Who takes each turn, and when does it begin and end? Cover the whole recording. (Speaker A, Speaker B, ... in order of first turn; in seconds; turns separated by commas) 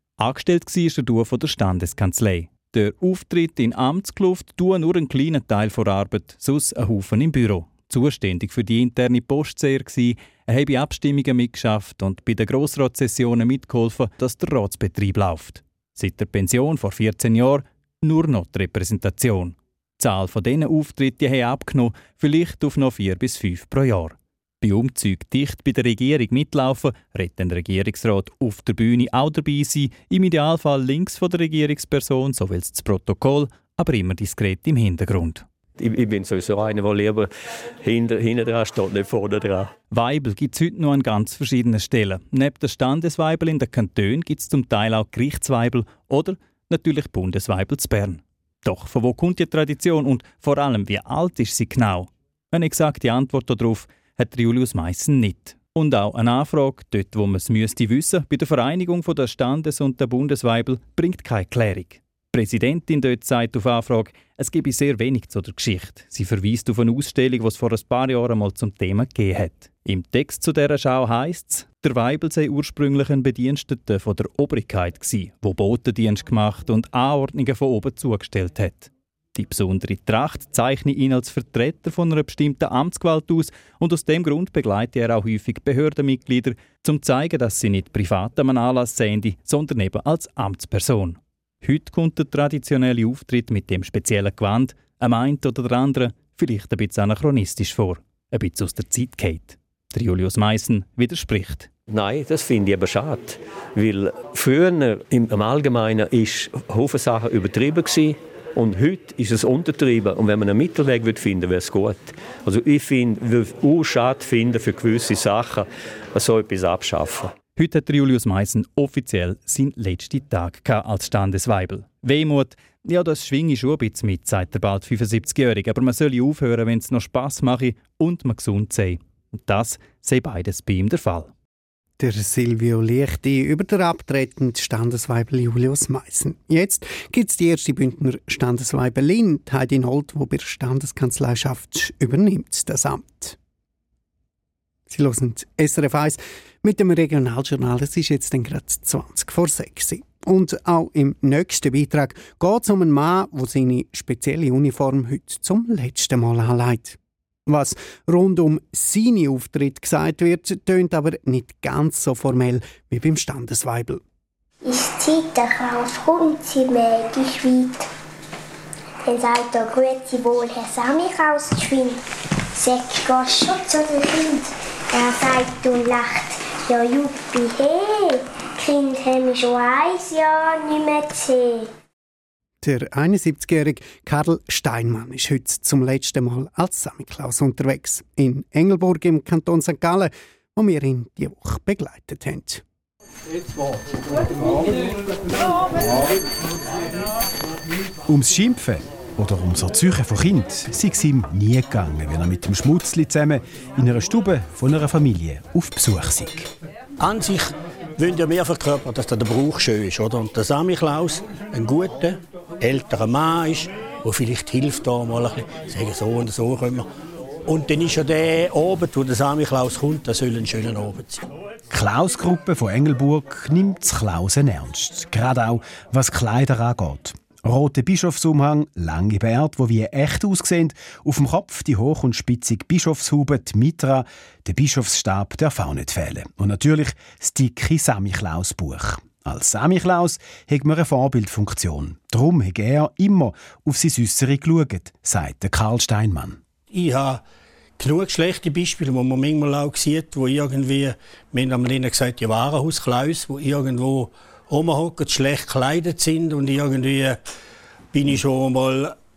Speaker A: 0.2-35.4, Speaker B: 35.8-37.3, Speaker B: 37.8-39.7, Speaker A: 39.9-101.7, Speaker B: 101.9-117.3, Speaker A: 117.6-131.3, Speaker C: 132.0-143.4, Speaker C: 144.9-164.0, Speaker D: 164.6-167.8, Speaker D: 169.1-172.0, Speaker D: 172.6-181.7, Speaker C: 182.6-192.6, Speaker E: 198.1-206.5, Speaker F: 207.0-216.9, Speaker F: 217.5-221.3, Speaker E: 221.7-246.4, Speaker F: 246.7-247.2, Speaker F: 247.8-257.2, Speaker F: 257.9-258.9